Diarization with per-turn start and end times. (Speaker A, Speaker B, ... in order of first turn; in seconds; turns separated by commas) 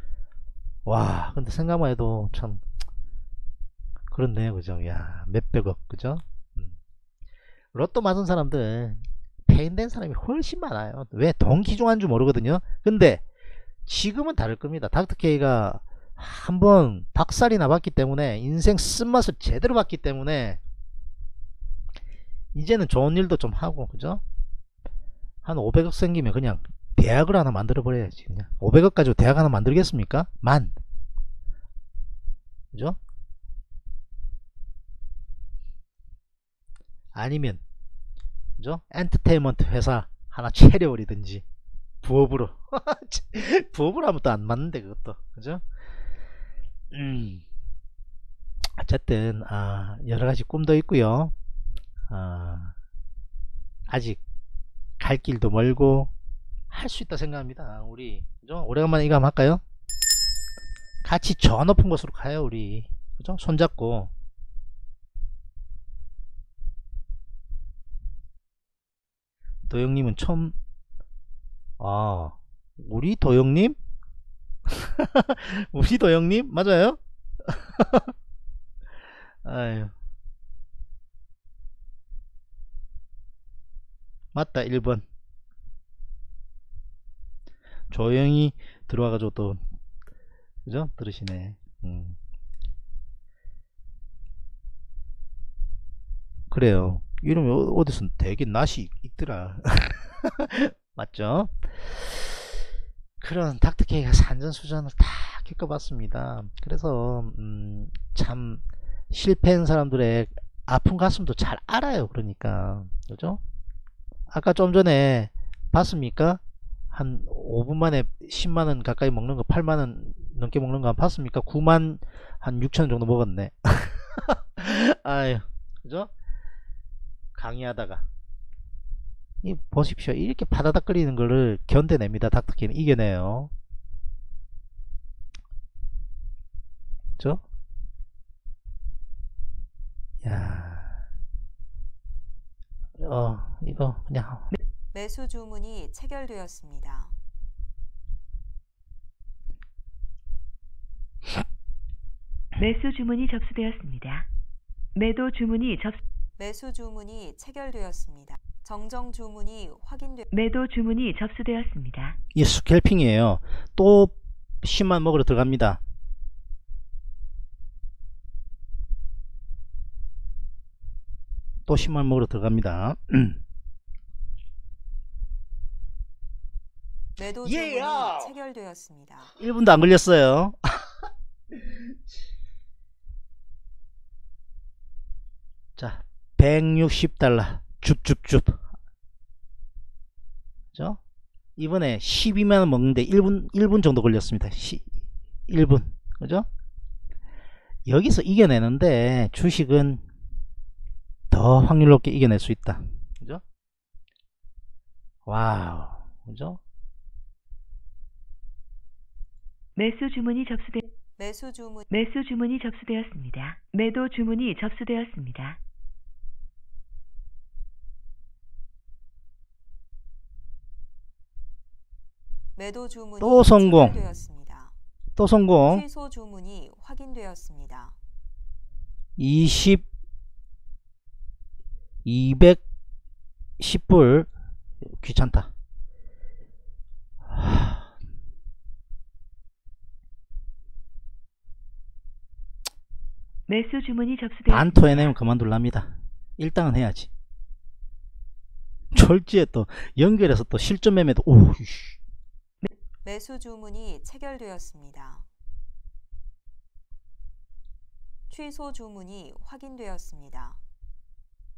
Speaker A: 0.8-2.6, Speaker A: 4.1-6.7, Speaker A: 7.7-13.2, Speaker A: 13.8-20.6, Speaker A: 22.5-24.2, Speaker A: 25.4-30.7, Speaker A: 32.7-33.0, Speaker A: 37.1-37.6, Speaker A: 38.6-41.4, Speaker A: 42.0-45.6, Speaker A: 46.9-47.4, Speaker A: 48.8-51.3, Speaker A: 52.1-52.7, Speaker A: 53.9-54.2, Speaker A: 55.0-56.1, Speaker A: 56.7-59.6, Speaker A: 61.0-64.1, Speaker A: 69.7-70.5, Speaker A: 71.8-73.8, Speaker A: 74.7-78.1, Speaker A: 79.4-79.9, Speaker A: 84.3-85.0, Speaker A: 87.9-89.6, Speaker A: 90.6-92.2, Speaker A: 96.5-102.4, Speaker A: 103.2-113.4, Speaker A: 114.3-116.4, Speaker A: 116.9-126.1, Speaker A: 127.3-128.0, Speaker A: 129.4-133.5, Speaker A: 137.2-137.4, Speaker A: 140.2-140.9, Speaker A: 143.0-144.5, Speaker B: 144.9-147.1, Speaker C: 152.6-154.3, Speaker C: 154.9-156.0, Speaker B: 156.4-160.3, Speaker C: 160.3-162.2, Speaker A: 162.3-165.8, Speaker A: 171.7-173.4, Speaker B: 177.2-179.3, Speaker A: 177.4-178.3, Speaker A: 179.4-180.8, Speaker A: 185.8-188.6, Speaker A: 190.7-191.0, Speaker A: 191.6-194.9, Speaker A: 195.5-196.5, Speaker A: 197.8-200.0, Speaker A: 201.3-203.4, Speaker A: 205.2-206.6, Speaker C: 209.8-210.8, Speaker B: 211.2-211.9, Speaker C: 211.9-215.6, Speaker B: 222.6-224.7, Speaker A: 223.2-224.0, Speaker A: 225.2-225.8, Speaker B: 225.7-227.9, Speaker A: 229.2-229.8, Speaker A: 232.0-232.6, Speaker A: 233.6-234.3, Speaker A: 234.9-235.5, Speaker A: 237.3-237.8, Speaker C: 243.5-245.1, Speaker A: 244.5-247.1, Speaker A: 248.9-252.0, Speaker B: 253.0-255.2, Speaker B: 258.3-260.6